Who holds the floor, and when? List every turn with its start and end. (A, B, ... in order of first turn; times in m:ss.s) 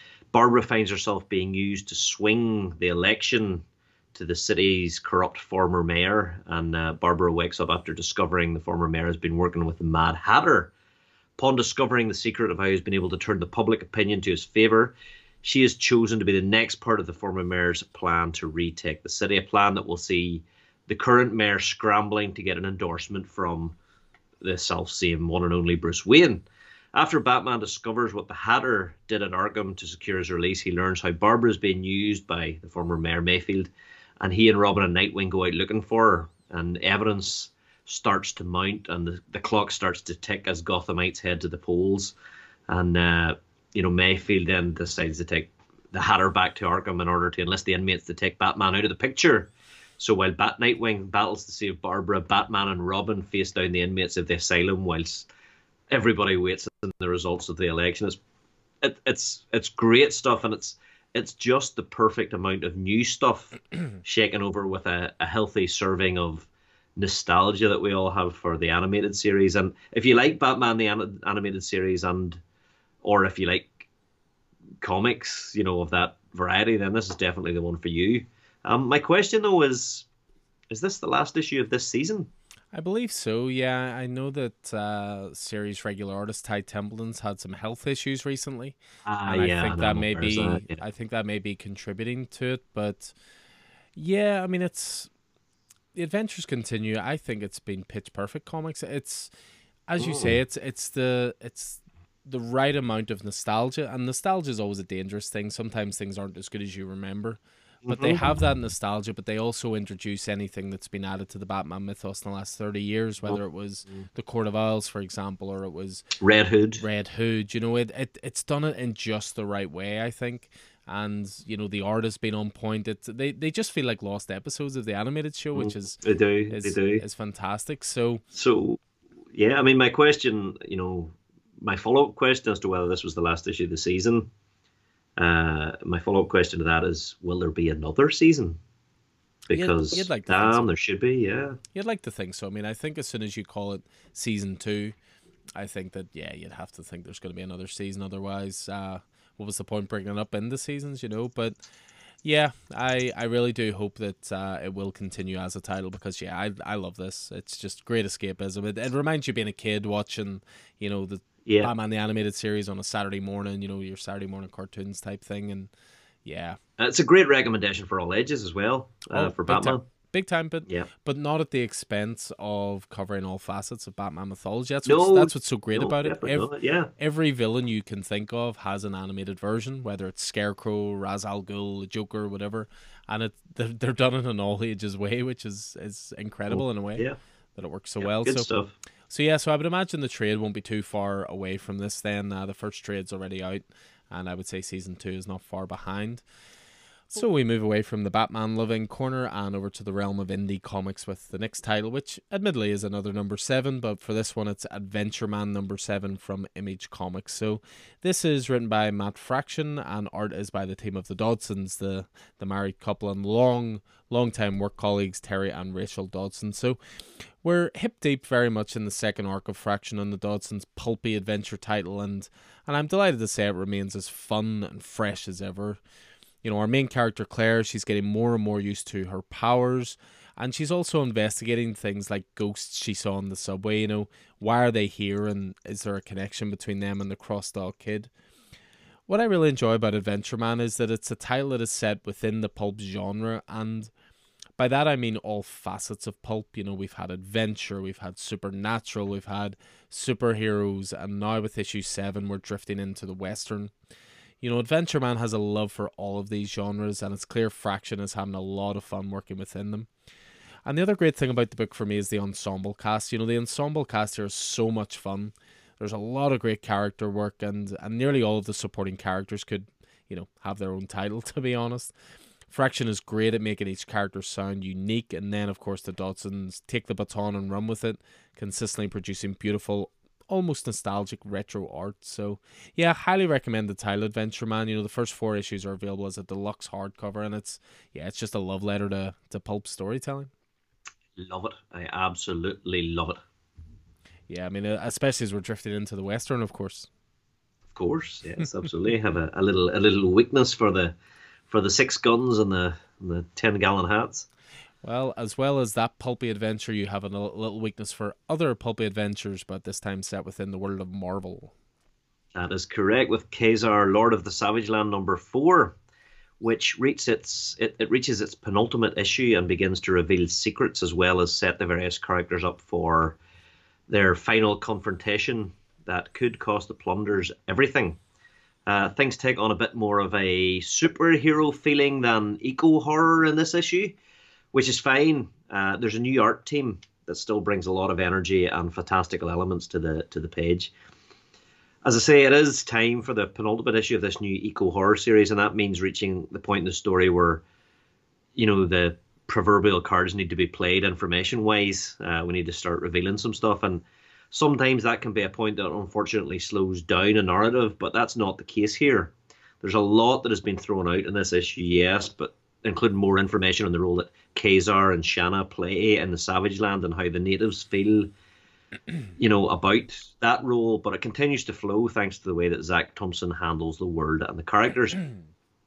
0:00.3-0:10.7 A
0:11.4-0:23.8 A
0:24.4-0:42.1 A
0:42.7-0:55.3 A
0:55.9-0:58.2 A
0:58.8-1:12.4 A
1:13.0-1:13.9 A
1:14.8-1:20.1 A
1:20.7-1:22.3 A
1:22.7-1:33.1 B
1:29.0-1:30.8 A
1:34.0-1:35.1 B
1:35.9-1:39.3 B
1:39.9-1:56.0 B
1:40.0-1:40.3 A
1:47.8-1:48.2 A
1:53.3-1:54.0 A
1:56.2-1:56.8 A
1:56.8-2:08.2 B
2:05.5-2:07.0 A
2:08.3-2:08.8 A
2:09.3-2:14.3 A
2:15.2-2:18.6 A
2:19.5-2:21.6 A
2:19.5-2:20.7 B
2:21.7-2:25.0 B
2:25.6-2:31.6 B
2:32.2-2:45.7 B
2:41.4-2:41.7 A
2:46.2-2:46.6 B
2:46.8-2:49.8 A
2:49.1-3:08.5 B
2:54.8-2:56.9 A
3:06.5-3:07.2 A
3:08.0-3:08.7 A
3:09.1-3:16.2 B
3:17.1-3:36.8 B
3:37.4-3:45.8 B
3:46.4-3:58.1 B
3:59.1-4:03.9 B
4:04.6-4:13.7 B
4:14.4-4:19.9 B
4:20.6-4:31.9 B
4:32.5-4:50.3 B
4:51.2-4:53.2 A
4:54.3-4:56.9 B
4:57.7-5:00.9 A
5:01.5-5:04.3 A
5:04.8-5:11.5 B
5:12.3-5:15.8 A
5:16.4-5:23.2 A
5:23.9-5:28.0 A
5:28.6-5:34.0 A
5:34.5-5:40.7 A
5:41.8-5:47.4 A
5:48.4-6:08.1 A
6:09.2-6:15.0 A